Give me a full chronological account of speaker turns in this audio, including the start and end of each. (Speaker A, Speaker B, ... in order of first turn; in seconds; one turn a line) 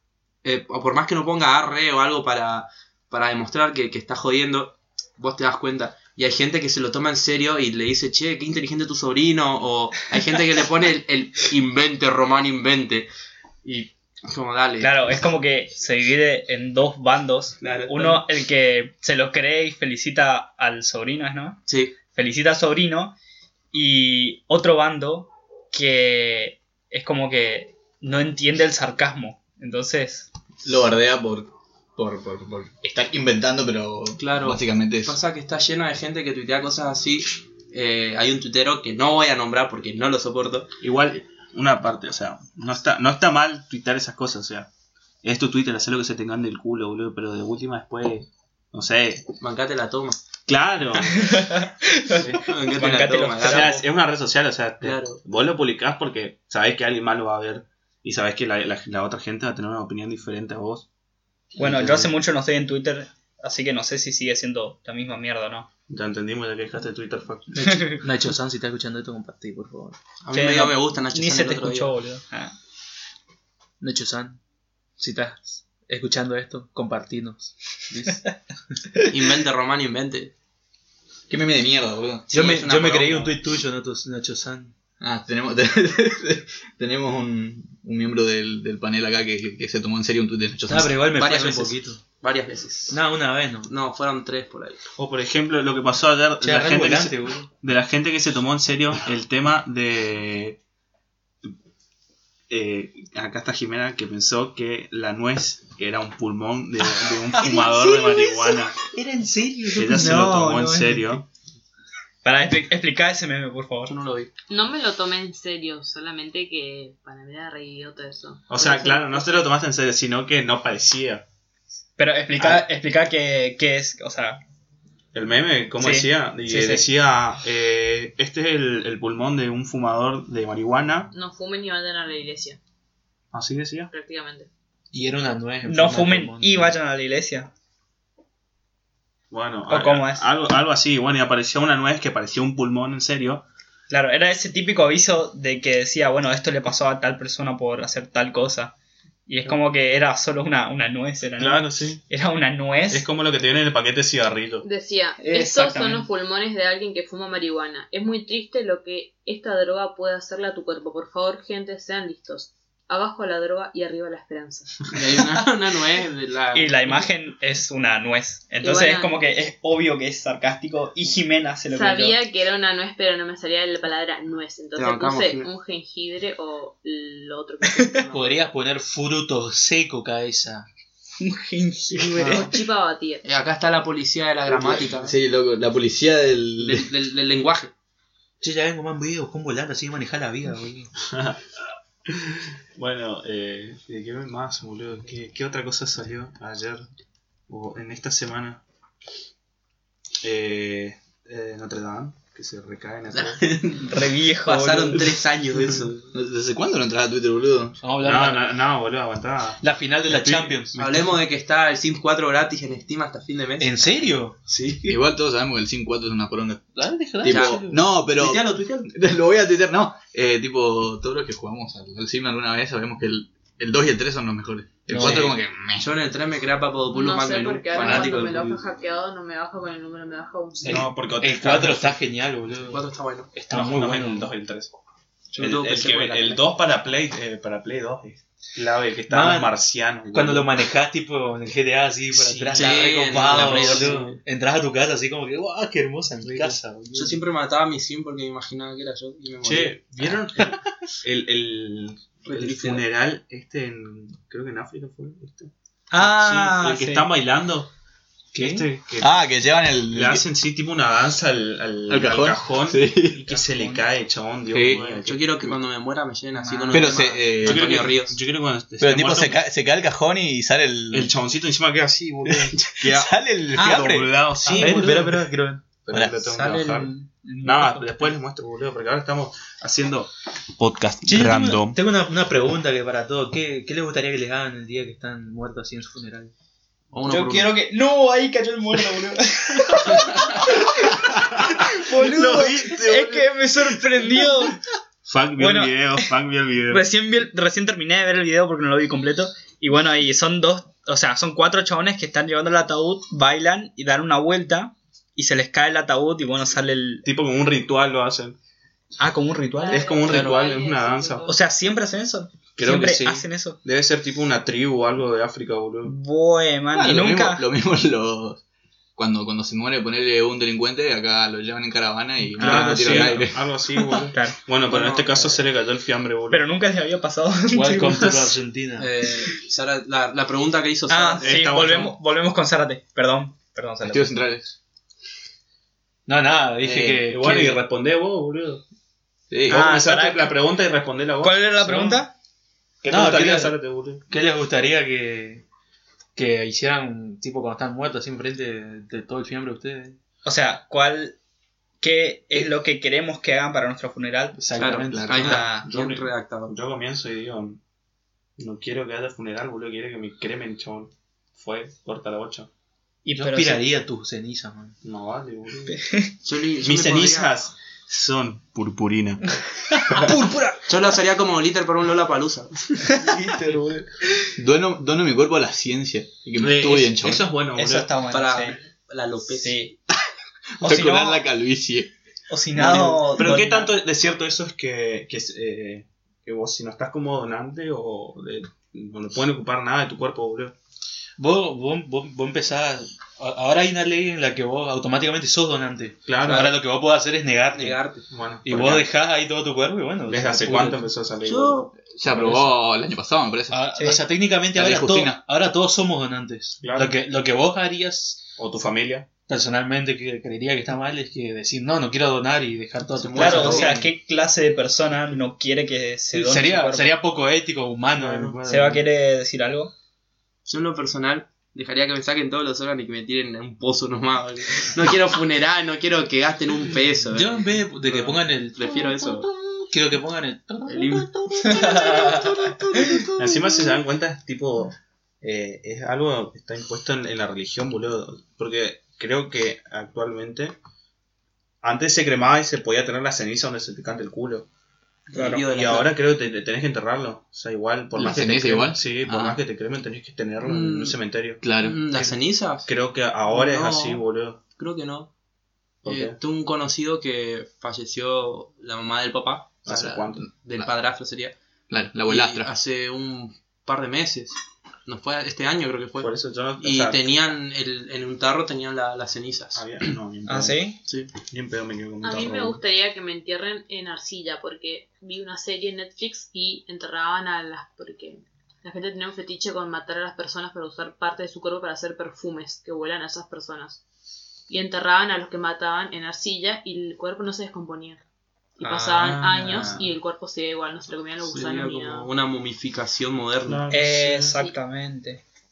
Speaker A: 0.4-13.1
Speaker A: 13.6-15.0
Speaker B: 14.8-23.1
Speaker A: 17.6-18.2
Speaker A: 21.7-21.9
Speaker B: 23.7-30.3
Speaker C: 30.6-35.2
Speaker A: 34.2-40.7
Speaker D: 40.8-44.7
Speaker D: 45.2-49.2
Speaker A: 49.4-50.2
Speaker D: 50.5-51.6
Speaker B: 51.2-53.8
Speaker D: 52.1-52.4
Speaker A: 52.4-53.8
Speaker D: 53.4-60.9
Speaker A: 54.8-55.2
Speaker D: 61.6-62.1
Speaker B: 61.6-65.7
Speaker D: 65.9-68.0
Speaker E: 67.5-70.0
Speaker B: 67.7-68.0
Speaker A: 70.2-71.9
Speaker B: 70.3-72.5
Speaker E: 73.8-74.4
Speaker E: 75.0-78.2
Speaker A: 79.1-80.3
Speaker C: 81.3-82.3
Speaker A: 82.3-83.3
Speaker E: 82.3-84.8
Speaker C: 85.0-91.0
Speaker E: 90.7-92.0
Speaker A: 91.2-93.0
Speaker E: 92.9-93.7
Speaker A: 93.6-94.8
Speaker D: 95.0-100.6
Speaker E: 96.4-97.5
Speaker D: 102.5-108.8
Speaker E: 107.4-110.2
Speaker B: 107.5-107.9
Speaker D: 109.7-111.2
Speaker B: 109.8-111.2
Speaker B: 112.2-113.9
Speaker A: 113.9-114.3
Speaker F: 114.5-119.5
Speaker D: 118.5-121.2
Speaker B: 122.0-124.4
Speaker D: 125.1-131.1
Speaker B: 125.8-126.8
Speaker F: 131.1-132.6
Speaker D: 133.3-133.9
Speaker F: 133.9-134.5
Speaker E: 134.9-136.8
Speaker B: 135.6-137.5
Speaker D: 139.3-143.4
Speaker B: 139.7-140.3
Speaker B: 143.9-148.7
Speaker B: 149.3-153.1
Speaker D: 151.4-152.0
Speaker D: 152.9-154.6
Speaker F: 154.6-164.8
Speaker B: 155.2-156.1
Speaker A: 164.9-167.0
Speaker B: 166.5-172.2
Speaker F: 168.6-169.2
Speaker F: 171.7-178.2
Speaker A: 174.8-175.5
Speaker E: 178.1-180.7
Speaker B: 181.2-182.6
Speaker F: 182.0-183.2
Speaker A: 183.2-185.2
Speaker C: 184.5-186.9
Speaker A: 186.6-187.7
Speaker E: 188.4-190.9
Speaker D: 191.1-191.4
Speaker D: 192.1-196.9
Speaker D: 197.5-198.6
Speaker D: 200.2-203.6
Speaker A: 203.1-206.1
Speaker B: 203.8-205.1
Speaker C: 206.1-207.8
Speaker E: 207.8-208.5
Speaker D: 208.0-211.2
Speaker E: 209.6-210.8
Speaker A: 210.8-215.0
Speaker E: 213.6-214.4
Speaker C: 214.9-225.9
Speaker E: 216.8-217.8
Speaker A: 217.2-218.9
Speaker E: 224.9-225.3
Speaker A: 224.9-228.4
Speaker F: 226.9-230.8
Speaker E: 227.8-228.6
Speaker D: 230.6-232.0
Speaker E: 230.6-234.3
Speaker A: 232.7-233.3
Speaker D: 233.5-234.8
Speaker A: 235.3-236.4
Speaker D: 235.4-240.6
Speaker E: 239.1-239.5
Speaker E: 240.1-247.1
Speaker D: 242.1-244.2
Speaker A: 242.5-244.2
Speaker D: 246.2-247.1
Speaker A: 246.9-249.8
Speaker D: 249.4-257.7
Speaker A: 252.2-252.8
Speaker B: 255.9-257.1
Speaker E: 258.3-258.7
Speaker D: 258.4-259.2
Speaker C: 259.0-260.2
Speaker D: 259.9-265.6
Speaker C: 261.9-263.2
Speaker B: 263.2-263.9
Speaker C: 264.5-264.9
Speaker A: 264.8-268.2
Speaker B: 266.4-267.0
Speaker C: 266.7-267.9
Speaker D: 267.4-269.4
Speaker C: 268.8-271.1
Speaker D: 270.9-272.9
Speaker C: 272.3-274.1
Speaker B: 273.6-274.9
Speaker D: 273.6-276.9
Speaker E: 274.5-275.6
Speaker B: 276.2-278.1
Speaker D: 277.4-281.8
Speaker E: 281.1-286.3
Speaker A: 286.9-287.5
Speaker B: 287.1-294.6
Speaker D: 290.2-294.3
Speaker D: 295.1-296.9
Speaker B: 295.4-296.1
Speaker B: 296.7-307.1
Speaker D: 307.1-308.4
Speaker B: 309.0-309.9
Speaker F: 309.6-311.4
Speaker D: 309.7-311.3
Speaker A: 310.1-310.5
Speaker B: 311.3-313.6
Speaker D: 312.6-315.9
Speaker B: 315.9-317.4
Speaker C: 316.7-318.4
Speaker C: 318.9-324.1
Speaker D: 322.4-326.4
Speaker B: 322.4-323.3
Speaker B: 324.1-324.4
Speaker A: 324.7-325.4
Speaker B: 326.3-328.2
Speaker E: 327.5-328.9
Speaker A: 328.8-331.4
Speaker B: 330.9-334.1
Speaker D: 331.2-331.9
Speaker C: 333.8-334.6
Speaker E: 336.1-337.6
Speaker C: 336.6-337.0
Speaker D: 337.1-338.6
Speaker C: 339.3-339.6
Speaker D: 339.5-341.7
Speaker B: 339.5-340.4
Speaker B: 341.2-342.1
Speaker E: 341.7-342.0
Speaker D: 342.8-344.0
Speaker E: 342.9-343.6
Speaker E: 344.1-345.4
Speaker E: 346.1-350.0
Speaker B: 350.2-351.2
Speaker B: 351.8-354.4
Speaker E: 354.4-355.5
Speaker A: 354.6-356.5
Speaker C: 354.9-355.2
Speaker B: 355.1-355.7
Speaker D: 355.6-357.6
Speaker D: 358.4-362.5
Speaker B: 363.1-363.7
Speaker E: 363.2-364.8
Speaker D: 364.8-365.8
Speaker B: 365.7-366.1
Speaker A: 366.2-367.4
Speaker D: 366.6-369.4
Speaker B: 370.0-370.3
Speaker A: 370.0-372.9
Speaker B: 372.9-373.6
Speaker E: 373.3-373.6
Speaker C: 374.4-377.3
Speaker D: 376.4-377.9
Speaker B: 377.5-378.6
Speaker A: 378.1-379.6
Speaker B: 379.3-379.8
Speaker C: 380.6-381.9
Speaker B: 380.6-381.3
Speaker B: 382.3-383.8
Speaker D: 382.6-390.6
Speaker E: 391.2-397.9
Speaker D: 396.1-396.5
Speaker A: 396.2-396.6
Speaker A: 397.5-398.1
Speaker D: 398.1-398.9
Speaker E: 398.4-400.9
Speaker D: 400.1-401.7
Speaker A: 401.2-401.7
Speaker C: 401.9-403.8
Speaker E: 402.1-402.6
Speaker E: 403.5-408.3
Speaker C: 404.6-405.2
Speaker D: 406.6-407.0
Speaker D: 408.4-409.1
Speaker E: 409.3-413.9
Speaker A: 413.0-413.7
Speaker D: 413.1-413.7
Speaker B: 413.1-416.9
Speaker E: 416.1-418.8
Speaker D: 417.9-418.7
Speaker B: 418.4-419.7
Speaker A: 420.4-429.3
Speaker E: 427.1-433.5
Speaker A: 430.7-432.3
Speaker D: 433.1-440.6
Speaker D: 441.6-444.5
Speaker A: 445.1-445.9
Speaker B: 445.1-445.4
Speaker D: 445.4-451.4
Speaker C: 447.9-449.4
Speaker A: 450.4-451.0
Speaker C: 451.4-451.8
Speaker A: 451.6-452.7
Speaker D: 452.6-454.4
Speaker A: 453.3-454.1
Speaker A: 454.6-455.1
Speaker D: 455.8-456.1
Speaker A: 455.9-461.4
Speaker D: 459.6-460.3
Speaker C: 460.2-460.7
Speaker C: 461.7-462.5
Speaker A: 462.1-469.7
Speaker D: 466.0-467.3
Speaker D: 469.6-470.6
Speaker B: 470.3-470.8
Speaker D: 471.1-472.6
Speaker F: 472.0-483.8
Speaker F: 484.5-488.0
Speaker F: 488.6-492.1
Speaker B: 488.6-489.8
Speaker D: 489.5-489.8
Speaker A: 491.2-493.6
Speaker D: 493.4-494.4
Speaker B: 493.7-495.2